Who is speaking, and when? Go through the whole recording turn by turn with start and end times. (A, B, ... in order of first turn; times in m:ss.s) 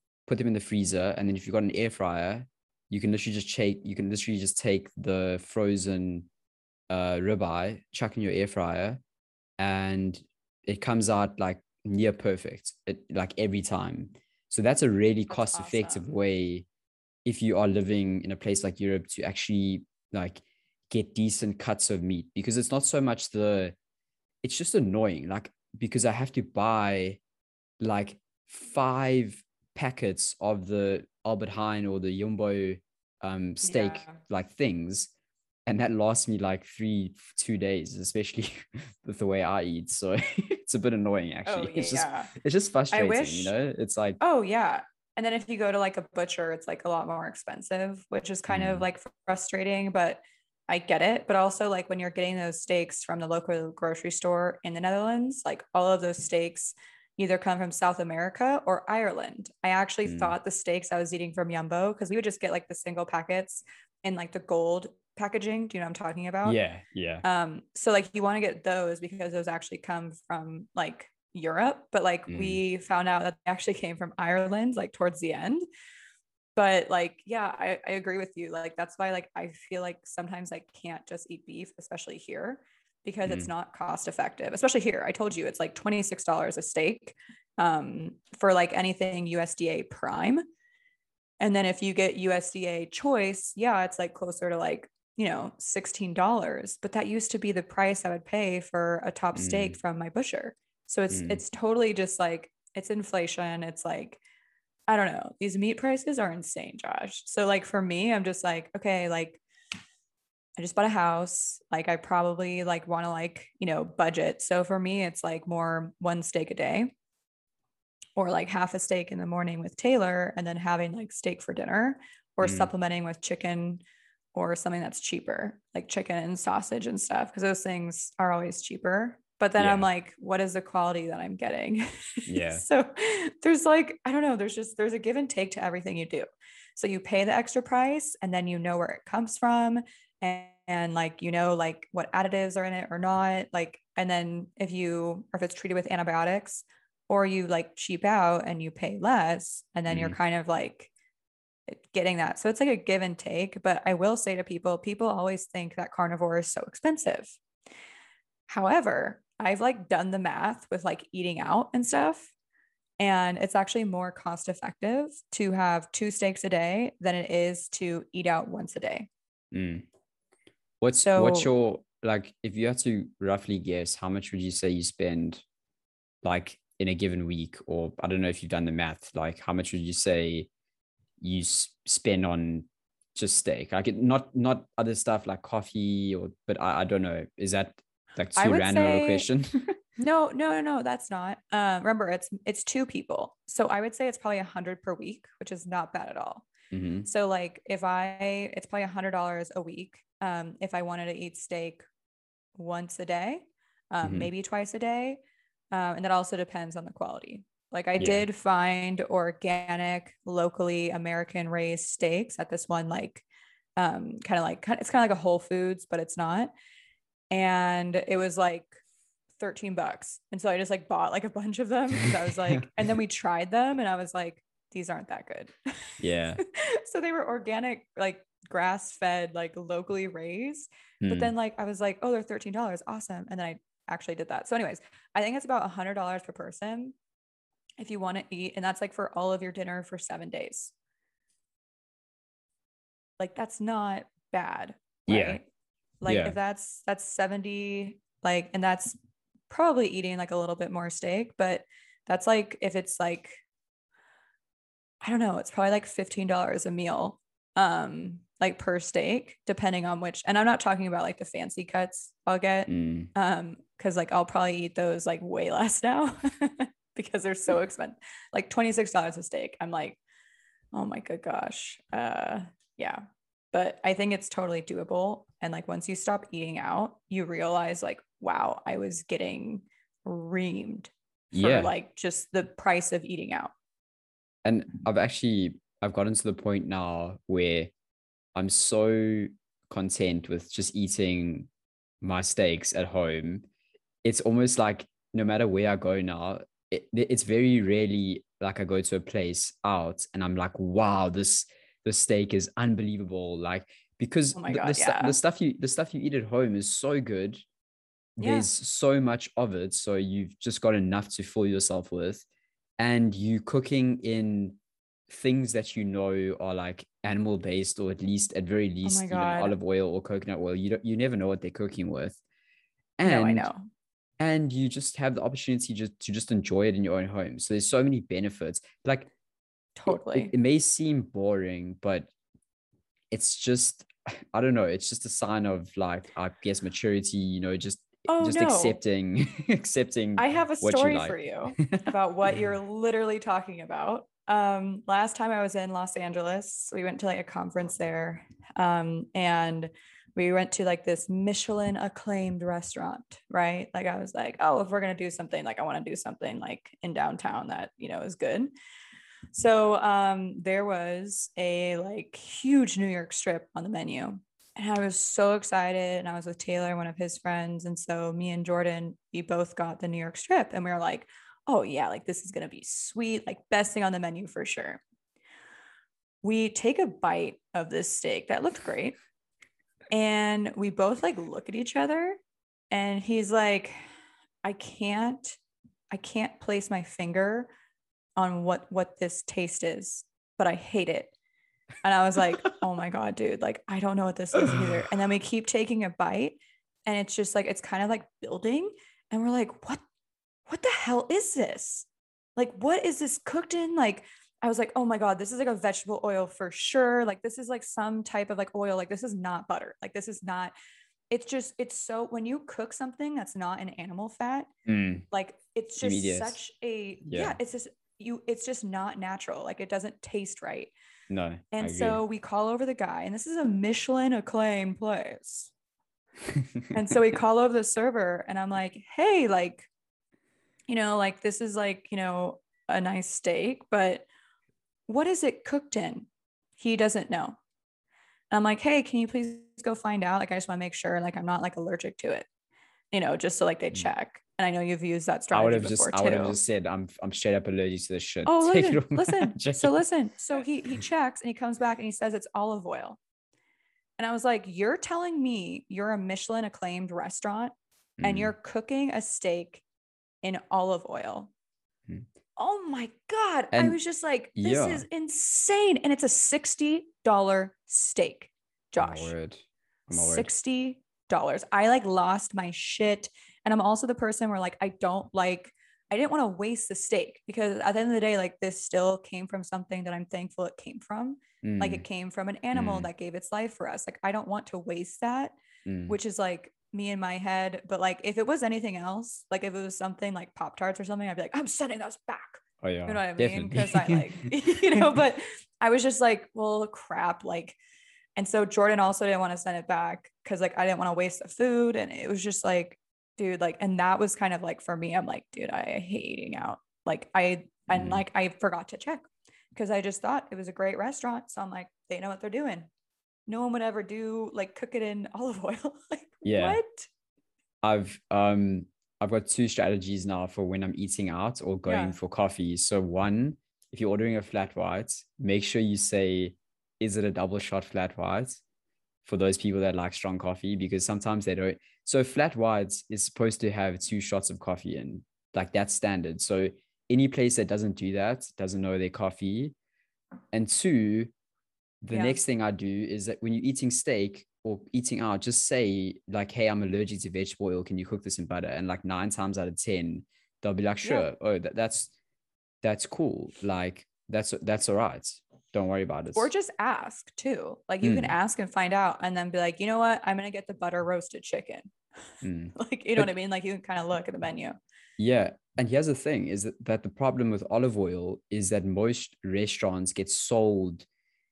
0:00.3-0:06.3 A
0:06.9-0:09.0 A
0:09.6-0:16.6 A
0:15.3-0:16.1 B
0:17.2-0:23.8 A
0:24.4-0:27.2 A
0:27.8-0:35.1 A
0:33.6-0:34.2 B
0:35.6-0:44.2 A
0:41.4-0:42.3 B
0:42.9-0:43.5 B
0:44.2-1:06.6 B
0:48.5-0:48.8 A
1:00.0-1:00.3 A
1:06.4-1:07.2 A
1:07.2-1:15.6 B
1:12.3-1:12.6 A
1:16.6-1:30.4 B
1:31.4-1:44.2 B
1:39.3-1:39.8 A
1:41.1-1:41.4 A
1:44.9-1:49.4 B
1:50.6-1:56.9 B
1:58.2-2:03.8 B
2:02.4-2:02.7 A
2:04.3-2:16.2 B
2:09.6-2:09.9 A
2:12.3-2:12.6 A
2:16.8-2:30.9 B
2:29.9-2:30.2 A
2:31.7-2:37.4 B
2:38.5-2:42.3 B
2:43.0-2:49.1 B
2:49.5-2:49.8 A
2:50.8-2:55.4 A
2:51.0-2:51.5 B
2:56.2-3:00.5 A
3:01.2-3:09.8 A
3:08.4-3:09.3 B
3:10.0-3:16.5 B
3:16.7-3:17.1 A
3:17.0-3:21.8 B
3:22.6-3:25.2 B
3:24.0-3:24.3 A
3:25.7-3:33.2 B
3:28.0-3:28.2 A
3:33.8-3:36.5 B
3:37.3-3:38.8 B
3:39.4-3:56.9 B
3:46.0-3:46.4 A
3:51.0-3:51.3 A
3:57.8-4:00.7 B
4:03.2-4:05.5 B
4:05.1-4:05.4 A
4:06.0-4:09.0 B
4:06.0-4:06.4 A
4:09.5-4:13.4 B
4:15.0-4:30.0 B
4:22.7-4:23.1 A
4:30.7-4:43.5 B
4:41.3-4:41.7 A
4:44.4-4:47.7 A
4:48.3-4:51.5 A
4:52.0-4:53.4 A
4:54.0-5:07.4 A
5:04.3-5:05.2 B
5:08.2-5:12.2 A
5:08.2-5:08.5 B
5:12.8-5:14.6 A
5:15.1-5:22.2 A
5:18.8-5:19.6 B
5:23.0-5:23.5 A
5:23.0-5:23.6 B
5:24.2-5:29.1 A
5:29.8-5:30.3 B
5:29.9-5:32.1 A
5:33.1-5:41.8 A
5:38.1-5:38.8 B
5:40.2-5:58.5 B
5:59.3-6:14.8 B
6:16.2-6:18.9 B
6:19.9-6:22.2 B
6:22.7-6:23.8 B
6:24.4-6:25.4 B
6:25.9-6:27.5 B
6:28.2-6:31.1 B
6:31.8-6:39.8 B
6:40.5-6:50.5 B
6:51.1-6:54.5 B
6:54.6-6:55.0 A
6:55.1-7:00.7 B
6:55.8-6:56.4 A
6:57.0-6:57.4 A
7:01.1-7:02.0 A
7:01.5-7:05.5 B
7:06.3-7:06.7 A
7:06.7-7:09.7 B
7:10.7-7:14.0 B
7:14.9-7:17.4 B
7:18.3-7:22.2 B
7:22.9-7:26.4 B
7:25.3-7:29.8 A
7:28.2-7:33.0 B
7:34.0-7:39.6 B
7:38.0-7:38.3 A
7:40.2-7:41.3 B
7:42.4-7:49.1 B
7:43.5-7:43.8 A
7:44.4-7:44.8 A
7:48.8-7:50.3 A
7:49.9-8:05.3 B
8:01.4-8:01.8 A
8:02.5-8:02.9 A
8:05.6-8:05.9 A
8:05.9-8:17.6 B
8:12.6-8:14.9 A
8:18.2-8:32.7 B
8:27.7-8:28.0 A
8:33.3-8:36.9 B
8:36.2-8:36.6 A
8:37.6-8:48.4 A
8:41.6-8:42.0 B
8:49.0-8:59.5 A
9:00.3-9:01.1 A
9:01.8-9:11.9 A
9:01.9-9:02.2 B
9:12.6-9:16.3 A
9:16.1-9:21.7 B
9:17.8-9:18.1 A
9:22.2-9:23.1 A
9:22.5-9:24.6 B
9:25.0-9:30.8 A